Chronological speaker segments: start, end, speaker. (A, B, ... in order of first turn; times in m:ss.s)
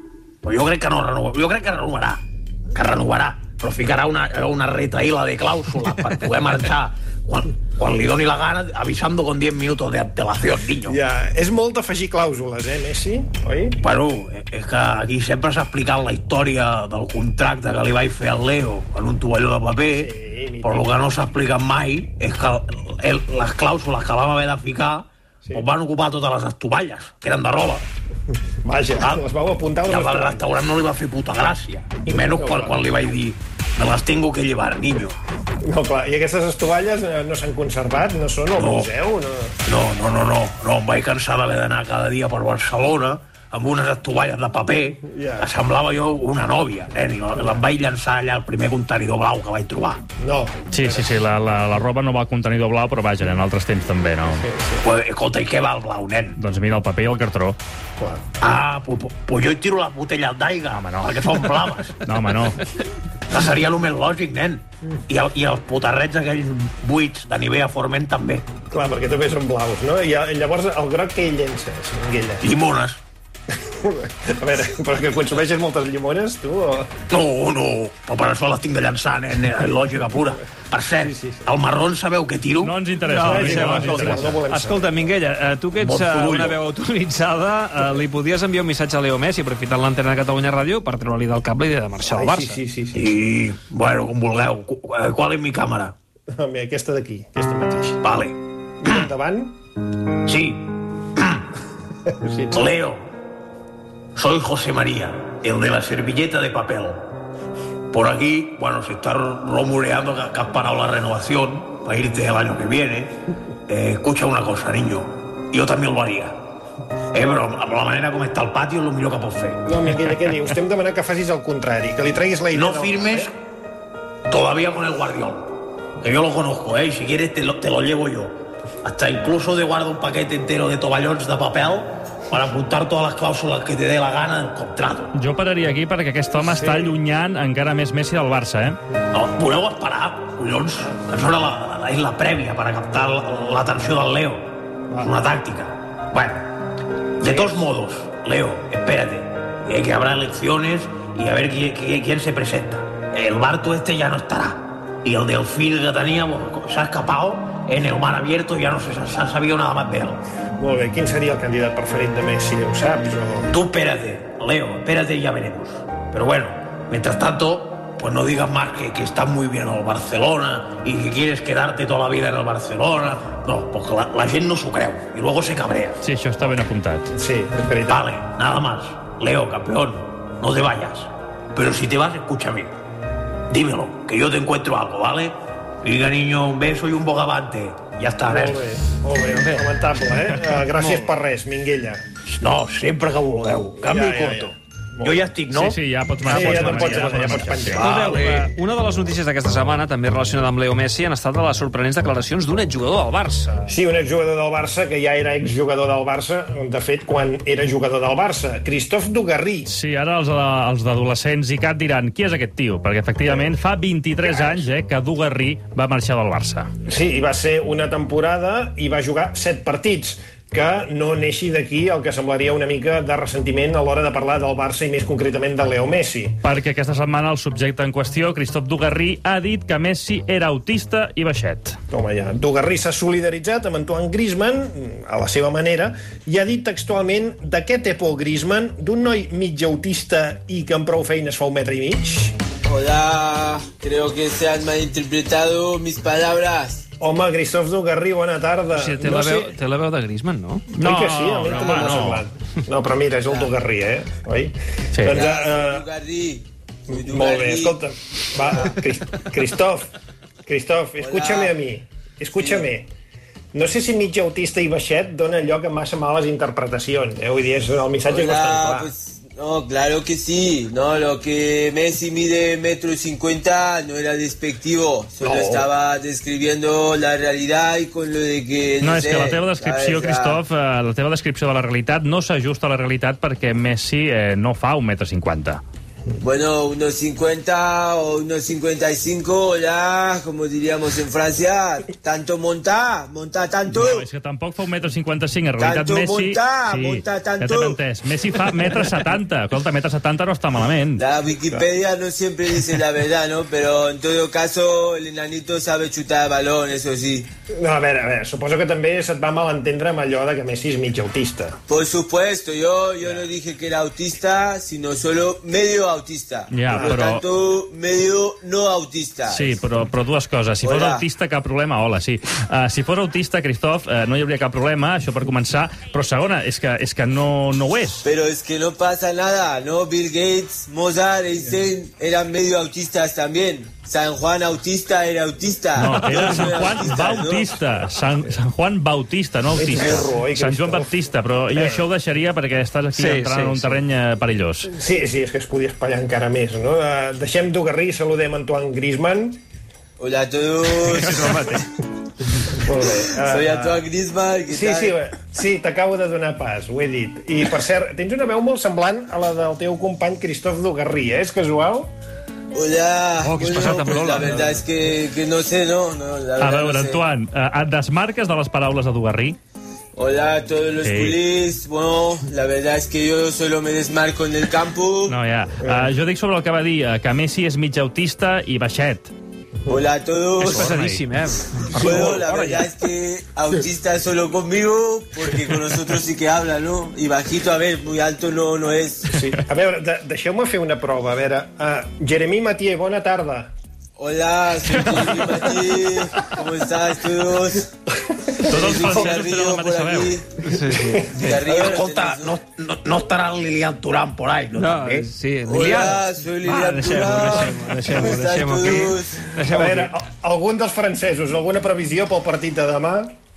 0:00.4-0:11.0 A
0:10.9-0:13.8 B
0:13.8-0:20.1 A
0:19.9-0:20.9 B
0:20.6-0:27.9 A
0:28.6-0:30.5 B
0:29.9-0:35.2 A
0:32.0-0:32.9 B
0:35.6-0:39.6 B
0:38.5-0:38.9 A
0:39.6-0:50.0 A
0:45.0-0:45.5 B
0:50.2-0:51.1 B
0:50.7-0:54.4 C
0:54.3-0:54.9 B
0:54.8-0:56.4 A
0:56.4-0:57.6 C
0:58.0-0:58.2 B
0:58.4-1:02.0 A
1:00.7-1:01.1 C
1:02.0-1:02.6 C
1:03.3-1:08.5 A
1:08.7-1:12.5 B
1:12.4-1:13.0 A
1:13.8-1:16.9 B
1:17.1-1:22.8 A
1:21.0-1:21.4 B
1:22.6-1:24.4 C
1:23.1-1:32.6 D
1:23.2-1:25.1 B
1:25.8-1:26.6 A
1:32.1-1:33.1 B
1:32.9-1:36.0 A
1:36.4-1:38.0 B
1:38.0-1:38.4 A
1:38.8-1:39.6 B
1:40.3-1:41.5 A
1:42.1-1:42.6 B
1:42.5-1:43.0 A
1:44.2-1:47.1 A
1:47.9-1:53.2 A
1:53.7-1:56.4 A
1:57.1-1:59.6 A
1:59.7-2:03.3 B
2:02.5-2:03.3 A
2:04.3-2:15.1 A
2:15.1-2:18.8 C
2:16.5-2:17.0 B
2:19.1-2:26.7 A
2:24.9-2:25.2 B
2:27.2-2:40.2 A
2:27.2-2:27.6 B
2:40.6-2:43.5 B
2:43.5-2:56.0 A
2:56.0-2:57.1 C
2:57.1-2:58.1 B
2:57.9-3:02.7 A
3:03.5-3:08.7 A
3:08.3-3:12.0 B
3:09.3-3:09.7 D
3:10.8-3:11.1 D
3:12.3-3:15.8 A
3:13.8-3:15.2 B
3:15.5-3:17.9 C
3:16.3-3:18.2 B
3:16.3-3:17.2 D
3:17.7-3:23.6 D
3:17.8-3:18.5 A
3:23.7-3:29.7 B
3:29.7-3:36.7 C
3:33.2-3:33.6 B
3:34.3-3:34.6 B
3:36.9-3:46.4 B
3:46.4-3:51.8 C
3:51.9-4:02.4 B
4:02.6-4:06.8 E
4:07.0-4:09.6 B
4:08.7-4:10.6 D
4:10.7-4:12.2 C
4:10.8-4:15.9 B
4:15.0-4:15.2 C
4:15.1-4:17.8 E
4:16.9-4:19.9 B
4:20.4-4:22.9 B
4:21.0-4:21.6 E
4:22.4-4:22.7 E
4:23.5-4:28.9 B
4:28.1-4:40.4 E
4:35.2-4:35.7 B
4:38.8-4:45.6 C
4:46.2-4:54.1 E
4:53.7-5:01.0 C
4:55.6-4:57.8 E
5:01.0-5:07.3 E
5:07.6-5:11.6 B
5:11.7-5:19.5 E
5:13.0-5:13.3 B
5:16.5-5:17.2 C
5:16.7-5:17.1 B
5:19.3-5:28.0 C
5:20.6-5:21.0 E
5:28.0-5:37.5 E
5:35.8-5:44.7 C
5:36.9-5:37.3 B
5:39.5-5:41.8 B
5:42.9-5:43.7 D
5:44.7-5:49.4 B
5:50.0-5:51.5 E
5:50.9-5:51.7 D
5:52.5-5:53.9 B
5:52.9-5:55.0 E
5:54.5-6:01.9 B
6:02.5-6:07.0 E
6:03.2-6:04.6 D
6:06.4-6:09.4 C
6:10.0-6:15.2 E
6:10.8-6:11.2 C
6:15.1-6:19.1 C
6:15.6-6:15.9 B
6:19.7-6:20.7 E
6:20.4-6:21.0 C
6:20.4-6:22.7 D
6:21.8-6:29.1 E
6:29.1-6:33.5 B
6:34.0-6:37.7 E
6:38.4-6:40.2 C
6:38.5-6:39.1 B
6:38.5-6:40.2 E
6:40.4-6:41.4 D
6:40.7-6:41.2 B
6:41.2-6:42.3 E
6:41.3-6:45.1 A
6:44.6-6:49.9 D
6:45.4-6:49.2 E
6:49.5-6:53.1 B